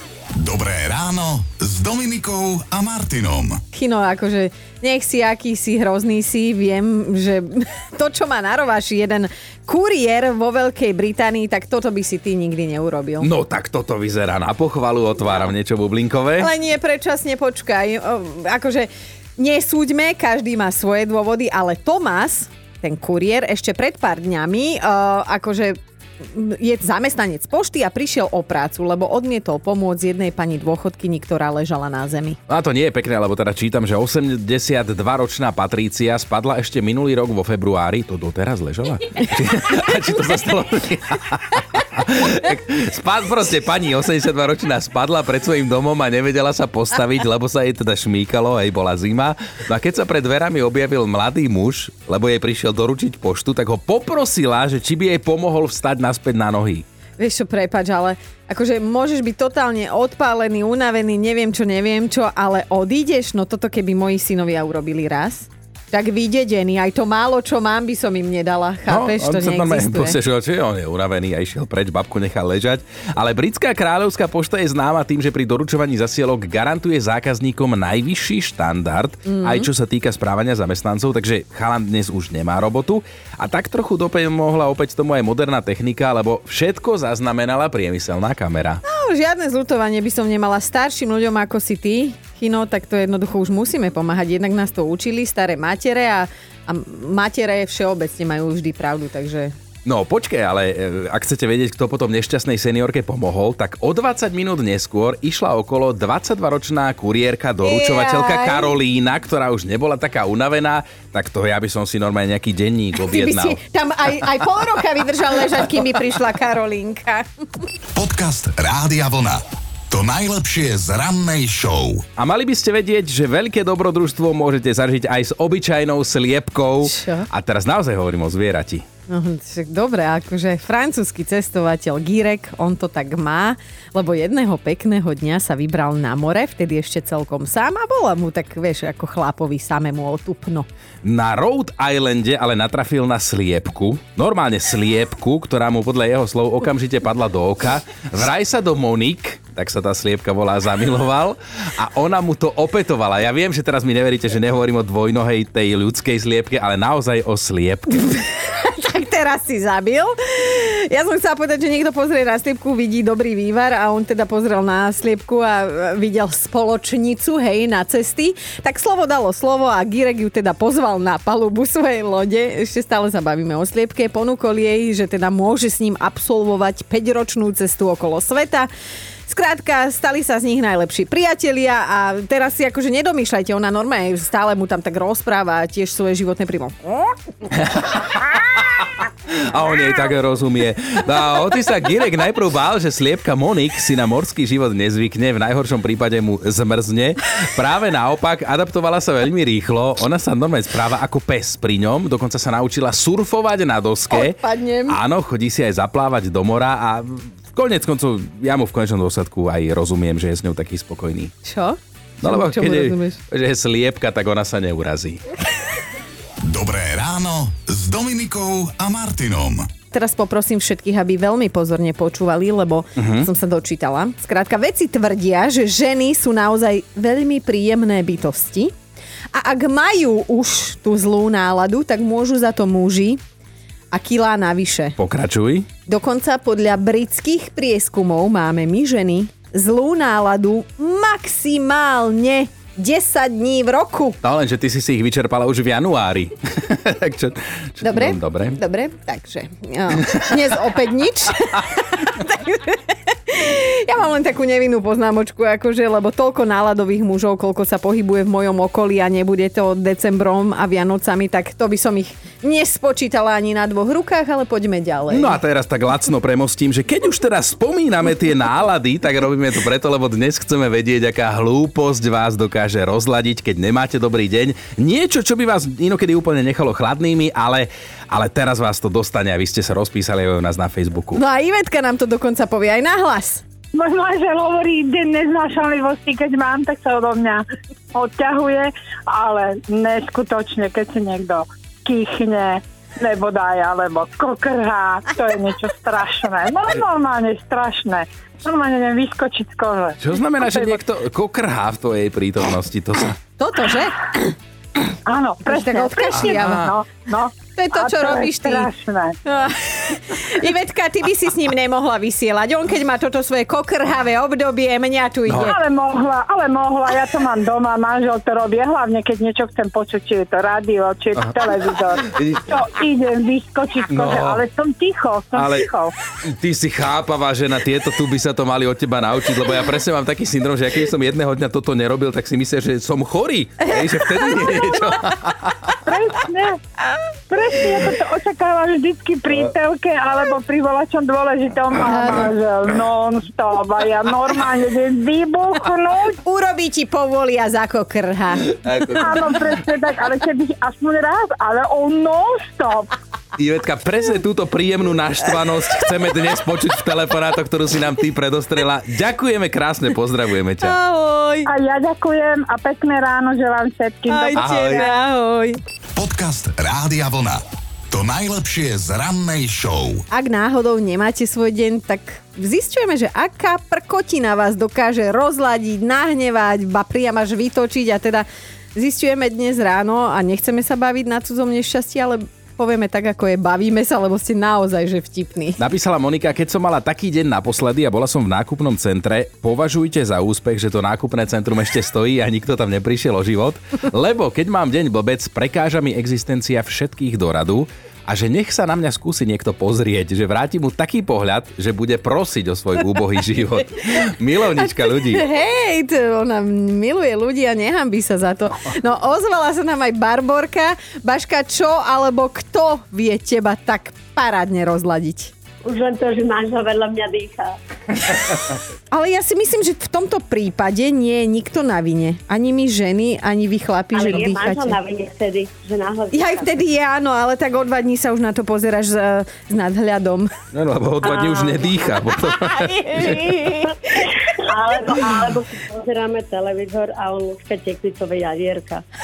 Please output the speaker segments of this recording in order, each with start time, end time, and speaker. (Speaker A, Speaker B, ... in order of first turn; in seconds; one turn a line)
Speaker A: 0.3-3.6
Speaker B: 3.7-13.3
Speaker C: 13.2-16.5
Speaker B: 16.4-32.4
Speaker C: 32.5-56.8
Speaker B: 57.2-70.2
Speaker C: 68.9-88.8
Speaker B: 79.3-79.7
Speaker B: 88.8-99.5
Speaker C: 99.8-113.6
Speaker B: 107.6-108.7
Speaker B: 113.0-117.2
Speaker A: 117.9-122.1
Speaker C: 122.2-128.8
Speaker B: 126.8-127.3
Speaker B: 129.1-140.7
Speaker C: 141.0-158.2
Speaker B: 158.3-178.7
Speaker B: 179.3-187.1
Speaker C: 187.5-211.3
Speaker B: 204.1-205.0
Speaker B: 211.4-213.2
Speaker C: 212.2-215.2
Speaker A: 216.4-219.7
Speaker B: 219.9-228.7
Speaker C: 223.0-223.3
Speaker B: 229.3-233.2
Speaker B: 233.9-234.9
Speaker C: 235.0-235.7
Speaker B: 235.8-244.2
Speaker C: 244.2-248.6
Speaker B: 247.8-265.4
Speaker C: 249.9-250.6
Speaker C: 265.1-281.2
Speaker B: 281.1-283.4
Speaker D: 283.7-300.8
Speaker C: 300.0-303.2
Speaker B: 303.4-304.3
Speaker D: 305.1-309.2
Speaker B: 305.4-306.6
Speaker C: 306.1-306.7
Speaker B: 307.6-308.7
Speaker B: 309.2-315.6
Speaker C: 315.2-315.5
Speaker D: 315.4-325.9
Speaker C: 321.1-321.4
Speaker C: 322.0-322.5
Speaker C: 323.9-324.4
Speaker C: 325.3-325.7
Speaker C: 326.2-335.8
Speaker D: 335.8-336.6
Speaker D: 337.3-346.2
Speaker B: 341.9-342.3
Speaker B: 346.2-348.6
Speaker C: 348.5-349.5
Speaker D: 348.9-352.9
Speaker C: 353.4-360.8
Speaker B: 360.6-361.5
Speaker D: 361.4-364.9
Speaker B: 364.1-365.6
Speaker C: 364.4-364.9
Speaker A: 365.9-370.0
Speaker B: 370.1-385.6
Speaker C: 385.6-405.2
Speaker B: 405.0-415.3
Speaker E: 415.6-418.4
Speaker B: 418.9-424.8
Speaker E: 423.9-426.5
Speaker B: 426.1-430.3
Speaker C: 430.5-433.4
Speaker E: 431.0-431.8
Speaker B: 432.4-434.1
Speaker E: 434.0-438.8